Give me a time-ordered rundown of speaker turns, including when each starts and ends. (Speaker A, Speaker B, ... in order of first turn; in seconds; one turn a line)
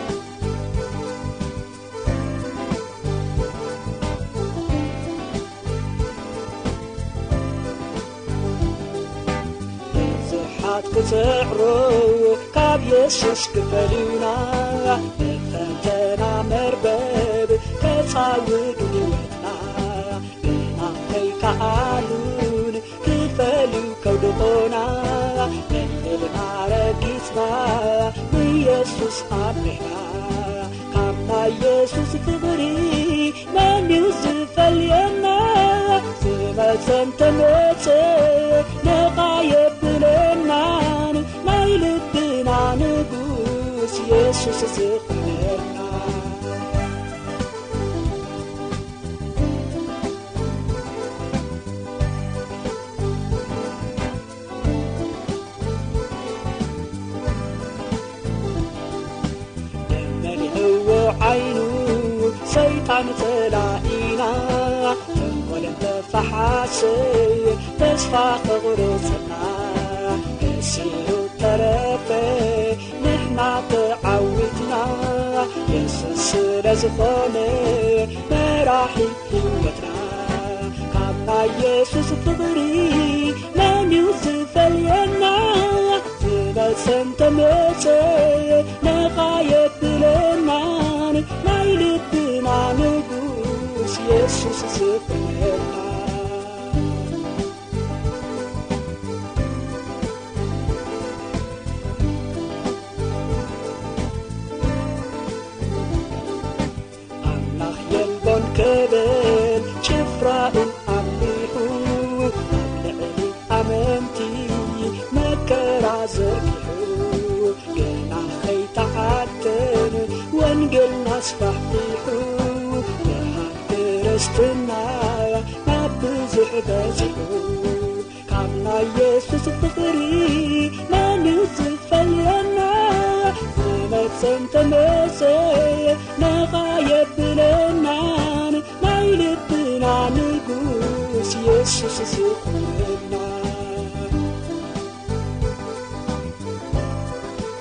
Speaker A: 9.9-46.8
Speaker A: 59.9-97.1
Speaker A: 107.2-144.1